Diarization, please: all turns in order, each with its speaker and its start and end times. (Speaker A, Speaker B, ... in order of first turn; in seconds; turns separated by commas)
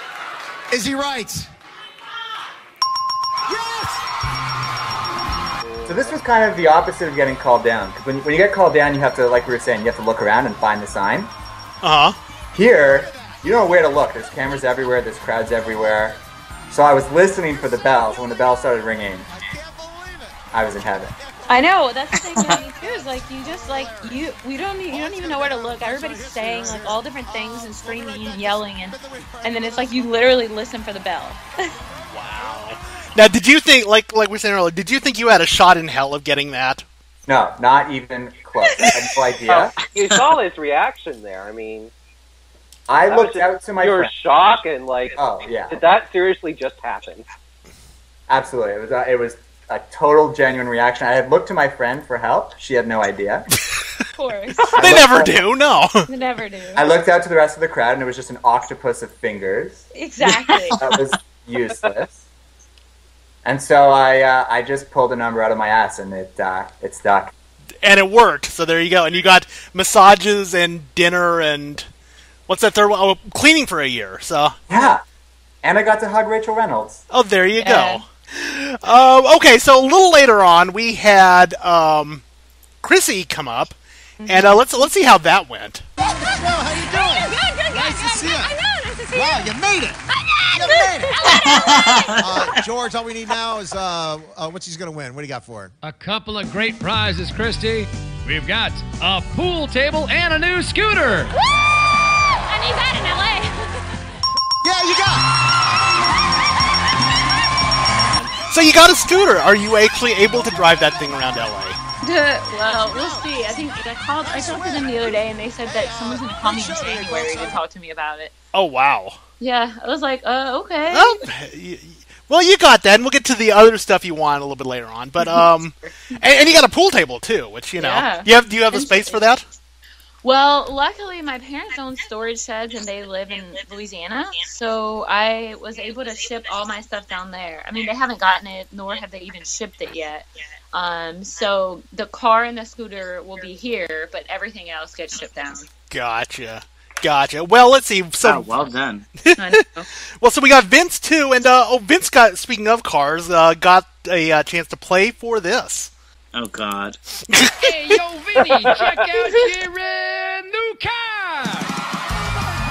Speaker A: 0.7-1.5, Speaker A: 3.5-4.0, Speaker B: 5.9-11.3, Speaker C: 11.8-12.2, Speaker B: 12.5-16.2, Speaker A: 12.8-13.9, Speaker A: 15.8-16.2, Speaker B: 16.7-19.3, Speaker A: 17.4-18.6, Speaker A: 19.2-24.3, Speaker B: 20.5-21.1, Speaker D: 21.5-31.4, Speaker E: 22.2-22.6, Speaker A: 24.9-30.4, Speaker A: 31.9-32.7, Speaker C: 32.1-36.9, Speaker B: 37.3-39.8, Speaker F: 39.5-41.9, Speaker B: 42.9-44.1, Speaker F: 43.0-47.2, Speaker B: 45.2-45.8, Speaker B: 48.3-53.5, Speaker C: 53.5-53.8, Speaker D: 54.2-54.7, Speaker C: 54.7-56.1, Speaker B: 54.8-55.4, Speaker D: 56.1-56.9, Speaker B: 56.8-59.9, Speaker D: 59.9-60.8, Speaker B: 60.8-62.1, Speaker B: 63.5-67.3, Speaker C: 67.8-71.9, Speaker C: 72.5-74.6, Speaker B: 74.7-75.0, Speaker B: 75.6-77.0, Speaker C: 77.1-82.2, Speaker D: 77.6-78.0, Speaker C: 82.8-85.9, Speaker D: 84.2-84.6, Speaker A: 86.0-88.6, Speaker D: 86.0-89.5, Speaker A: 89.1-95.7, Speaker D: 90.1-92.5, Speaker G: 95.8-101.3, Speaker D: 102.5-103.8, Speaker A: 104.6-105.3, Speaker C: 108.4-111.8, Speaker D: 112.0-118.3, Speaker A: 112.6-113.4, Speaker A: 114.2-117.6, Speaker C: 118.5-119.2, Speaker D: 119.4-121.2, Speaker C: 120.9-129.4, Speaker D: 125.2-125.5, Speaker D: 127.8-129.2, Speaker D: 130.2-145.7, Speaker C: 145.9-148.6, Speaker E: 148.2-149.1, Speaker C: 149.2-149.6, Speaker D: 149.4-149.9, Speaker C: 150.2-155.9, Speaker E: 156.3-157.0, Speaker C: 157.3-158.0, Speaker G: 157.6-161.7, Speaker F: 158.4-159.1